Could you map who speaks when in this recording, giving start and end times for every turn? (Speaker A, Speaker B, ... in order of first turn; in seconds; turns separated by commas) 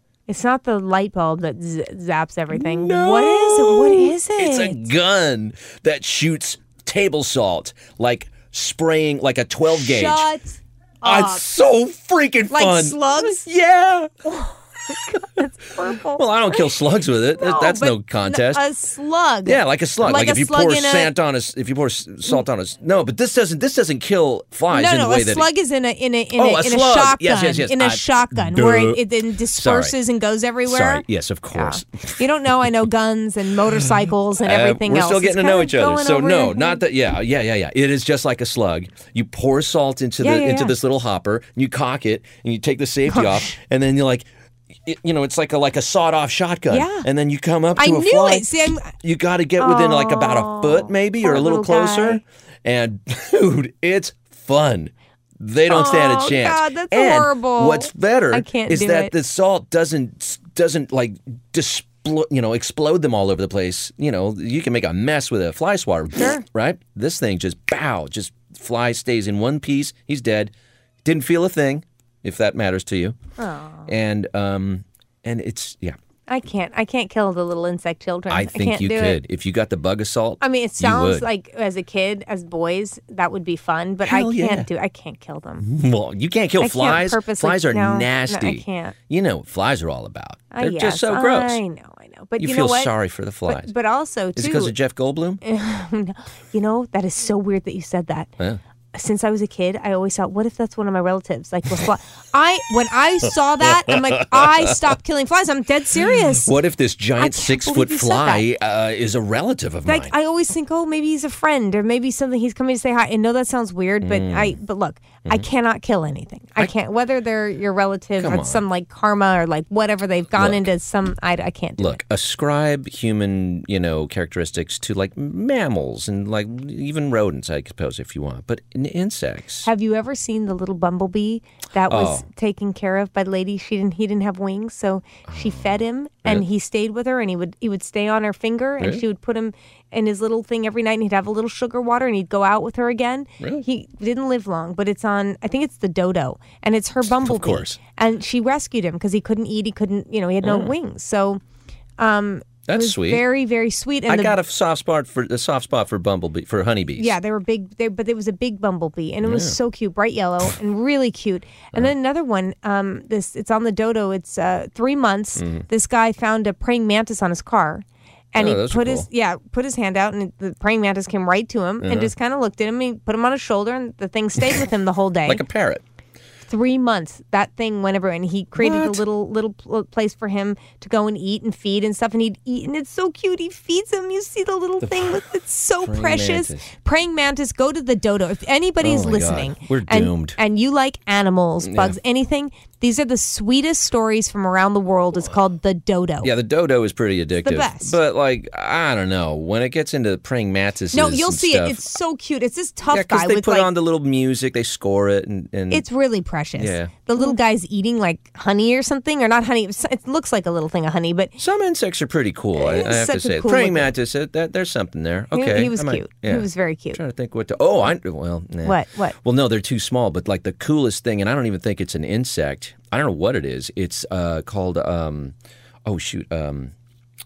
Speaker A: 0.3-4.9, Speaker B: 2.5-10.3, Speaker A: 9.7-11.4, Speaker B: 11.0-14.3, Speaker A: 12.5-13.4, Speaker A: 14.3-16.7, Speaker B: 14.9-15.2, Speaker B: 15.8-18.6, Speaker A: 17.4-21.1, Speaker B: 19.4-25.5, Speaker A: 24.7-36.8, Speaker B: 26.4-29.9, Speaker B: 30.6-32.2, Speaker B: 33.8-44.3, Speaker A: 40.2-40.7, Speaker A: 43.1-43.6, Speaker B: 44.8-70.5, Speaker A: 46.7-47.1, Speaker A: 47.8-48.9, Speaker A: 49.6-52.2, Speaker A: 55.7-59.1, Speaker A: 66.2-66.4, Speaker B: 71.0-73.2, Speaker A: 73.4-73.9, Speaker B: 73.9-76.0, Speaker A: 76.3-79.2, Speaker B: 78.3-81.2, Speaker A: 80.4-85.6, Speaker B: 84.0-84.7, Speaker B: 85.6-91.6, Speaker A: 86.6-89.0, Speaker A: 90.5-92.9, Speaker B: 92.4-93.7, Speaker A: 93.5-94.7, Speaker B: 94.3-95.4, Speaker A: 95.4-98.3, Speaker A: 98.9-106.5, Speaker B: 103.6-104.9, Speaker B: 106.0-110.1, Speaker A: 107.2-108.4, Speaker A: 109.8-122.0, Speaker B: 114.0-114.6, Speaker B: 118.2-118.6, Speaker B: 120.3-120.6, Speaker B: 121.8-129.7, Speaker A: 129.6-151.4, Speaker B: 131.9-132.2, Speaker B: 135.3-136.4, Speaker B: 147.2-147.8, Speaker B: 150.4-150.7, Speaker A: 152.0-154.4, Speaker B: 152.7-153.2, Speaker B: 154.1-157.2, Speaker A: 156.9-175.4, Speaker B: 159.2-159.6, Speaker B: 165.4-165.6, Speaker B: 168.4-169.1, Speaker B: 171.8-172.1, Speaker B: 175.2-175.8, Speaker A: 176.5-196.3, Speaker B: 178.6-179.0, Speaker B: 184.8-185.2, Speaker B: 185.8-186.7, Speaker B: 188.8-190.4, Speaker B: 191.6-191.9, Speaker B: 196.2-201.9, Speaker A: 197.4-197.9, Speaker A: 200.9-203.7, Speaker B: 202.9-205.8, Speaker A: 205.7-211.3, Speaker B: 206.6-207.4, Speaker B: 211.4-226.7, Speaker A: 212.5-213.9, Speaker A: 215.3-217.0, Speaker A: 218.6-219.2